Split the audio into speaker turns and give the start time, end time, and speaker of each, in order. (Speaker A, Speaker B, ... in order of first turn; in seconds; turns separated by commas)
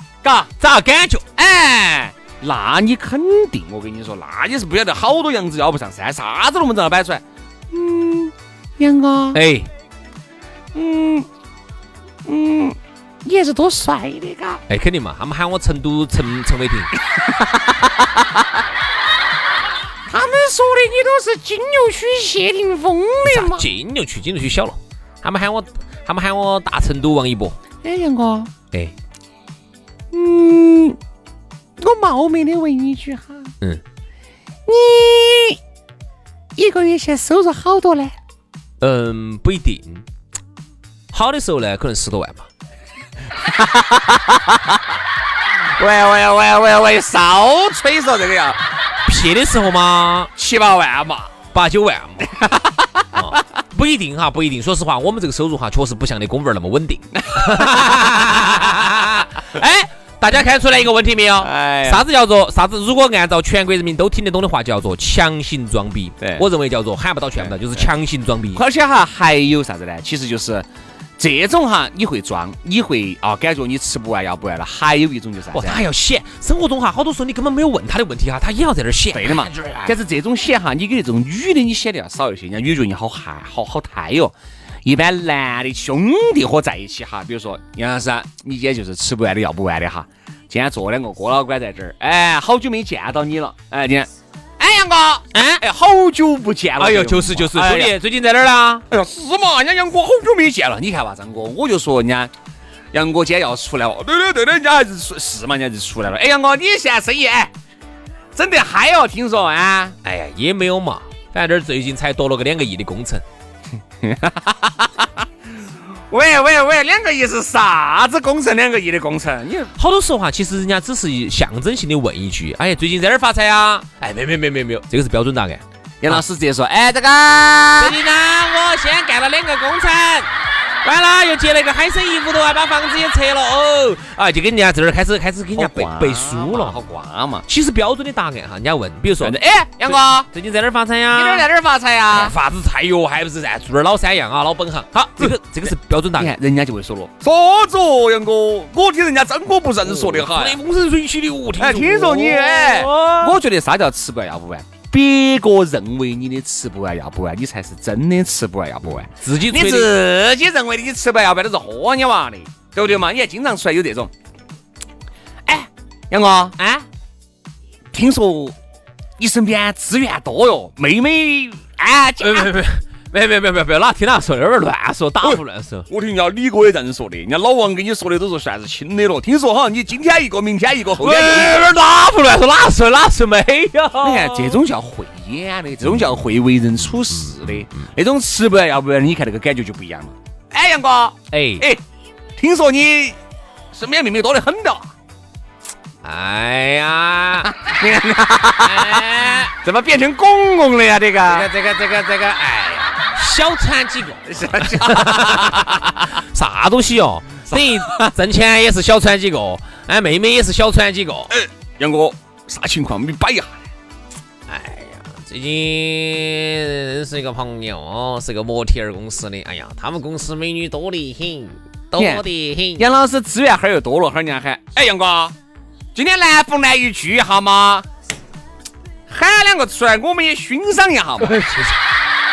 Speaker A: 0.2-0.5, Speaker B: 0.6-1.2, Speaker A: 1.4-9.4, Speaker B: 9.3-9.7, Speaker A: 10.8-11.3, Speaker A: 12.3-14.6, Speaker B: 14.7-16.9, Speaker A: 17.1-18.4, Speaker A: 20.1-23.7, Speaker B: 23.2-27.6, Speaker A: 27.8-28.5, Speaker A: 30.1-31.0, Speaker A: 31.8-33.5, Speaker A: 34.7-35.6, Speaker A: 36.6-38.1, Speaker B: 38.8-40.0, Speaker B: 41.1-42.5, Speaker A: 43.4-44.8, Speaker A: 45.8-48.6, Speaker B: 49.1-50.3, Speaker A: 50.4-51.3, Speaker B: 51.5-52.3, Speaker A: 52.2-53.1, Speaker B: 53.1-68.6, Speaker A: 57.1-58.1, Speaker A: 61.4-62.0, Speaker A: 66.2-66.5, Speaker A: 67.4-67.9, Speaker A: 68.5-70.7, Speaker A: 71.2-75.8, Speaker B: 75.5-79.9, Speaker A: 79.1-98.0, Speaker B: 95.3-95.6, Speaker B: 96.8-98.8, Speaker A: 98.9-102.3, Speaker A: 102.9-107.5, Speaker A: 108.3-110.0, Speaker B: 110.0-113.2, Speaker A: 114.0-115.3, Speaker A: 116.1-119.7, Speaker B: 119.8-126.2, Speaker A: 126.0-128.0, Speaker B: 127.8-130.3, Speaker B: 130.8-136.8, Speaker A: 135.6-137.5, Speaker B: 137.5-141.5, Speaker A: 139.2-140.3, Speaker A: 141.1-142.4, Speaker B: 142.1-146.4, Speaker A: 146.2-150.6, Speaker B: 149.9-153.4, Speaker A: 151.6-164.1, Speaker B: 158.9-159.9, Speaker A: 165.4-166.6, Speaker B: 166.6-166.8, Speaker A: 167.9-168.6, Speaker A: 169.2-172.6, Speaker B: 172.2-175.9, Speaker A: 175.2-181.7, Speaker B: 181.0-184.6, Speaker A: 184.0-191.8, Speaker B: 187.2-187.8, Speaker B: 191.3-191.7, Speaker A: 192.4-193.2, Speaker A: 193.7-194.9, Speaker B: 196.0-197.5, Speaker A: 197.5-201.5, Speaker B: 198.7-199.4, Speaker B: 201.3-211.3, Speaker A: 204.3-206.0, Speaker A: 207.5-208.1, Speaker A: 211.3-213.6, Speaker B: 214.5-222.9, Speaker A: 222.0-222.2, Speaker A: 222.8-225.4, Speaker A: 225.9-227.9, Speaker A: 229.1-231.3, Speaker B: 231.2-231.8